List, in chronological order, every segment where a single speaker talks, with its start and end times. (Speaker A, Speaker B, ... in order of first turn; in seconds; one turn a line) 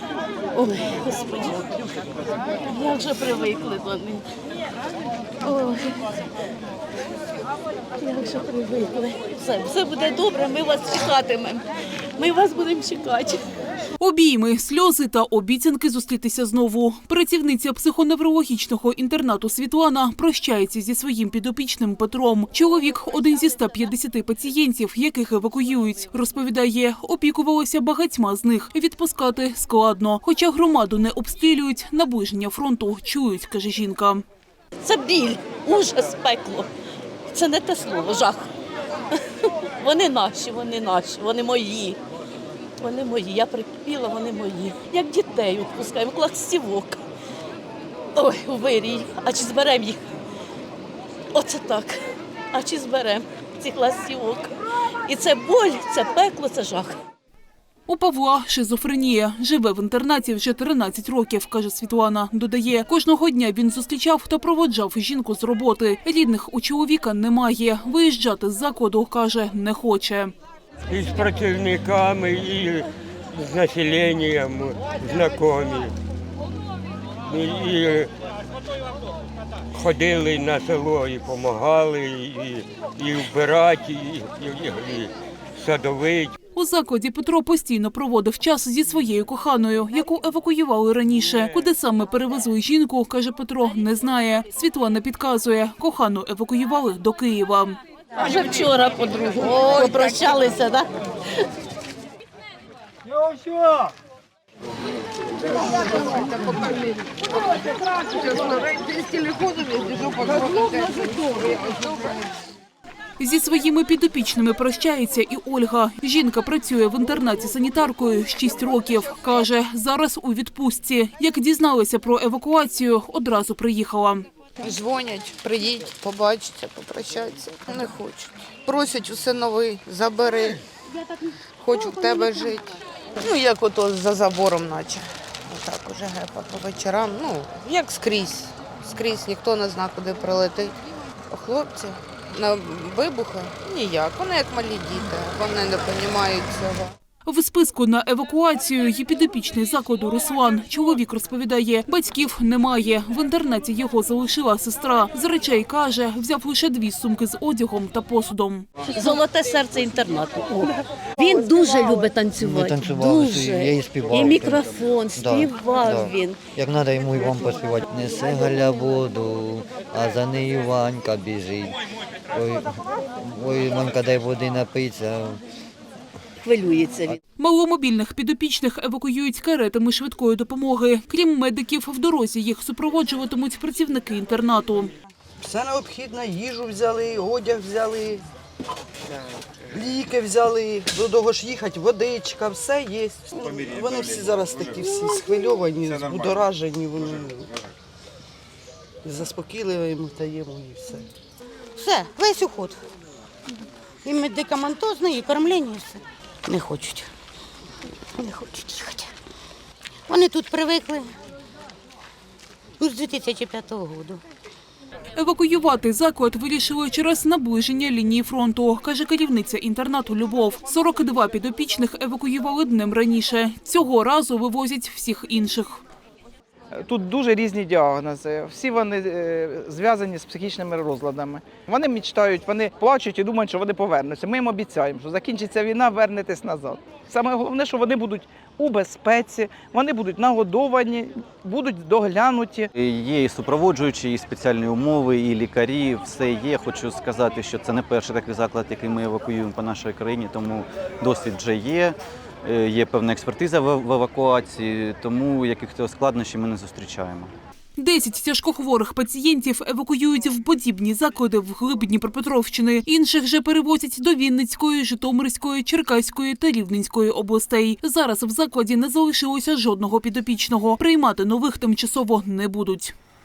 Speaker A: 0.6-1.7
Speaker A: 2.7-4.2
Speaker A: 5.5-6.0
Speaker A: 8.0-13.4
Speaker B: 14.0-34.2
Speaker A: 34.8-36.7
Speaker A: 37.3-38.5
Speaker A: 39.8-42.0
Speaker A: 42.8-47.0
Speaker A: 48.1-50.0
Speaker A: 51.3-52.0
Speaker A: 52.5-54.5
Speaker A: 55.1-57.0
Speaker B: 57.9-70.3
Speaker C: 70.9-75.9
Speaker C: 77.3-78.1
Speaker C: 79.7-86.3
Speaker B: 86.5-97.8
Speaker A: 98.2-100.9
Speaker D: 105.7-107.3
Speaker D: 108.0-112.2
Speaker B: 113.2-124.3
Speaker D: 124.6-130.6
Speaker D: 131.6-140.7
Speaker D: 141.3-146.9
Speaker B: 147.3-158.7
Speaker A: 158.9-166.4
Speaker E: 162.4-171.8
Speaker E: 172.3-175.4
Speaker A: 176.4-177.2
Speaker B: 177.4-184.9
Speaker F: 185.4-188.3
Speaker F: 189.7-197.5
Speaker F: 199.0-201.1
Speaker G: 201.8-202.8
Speaker G: 204.1-207.1
Speaker G: 208.2-209.1
Speaker G: 210.1-211.1
Speaker G: 212.8-214.2
Speaker B: 215.2-225.8
Speaker H: 226.8-242.7
Speaker I: 242.8-257.3
Speaker B: 257.8-272.9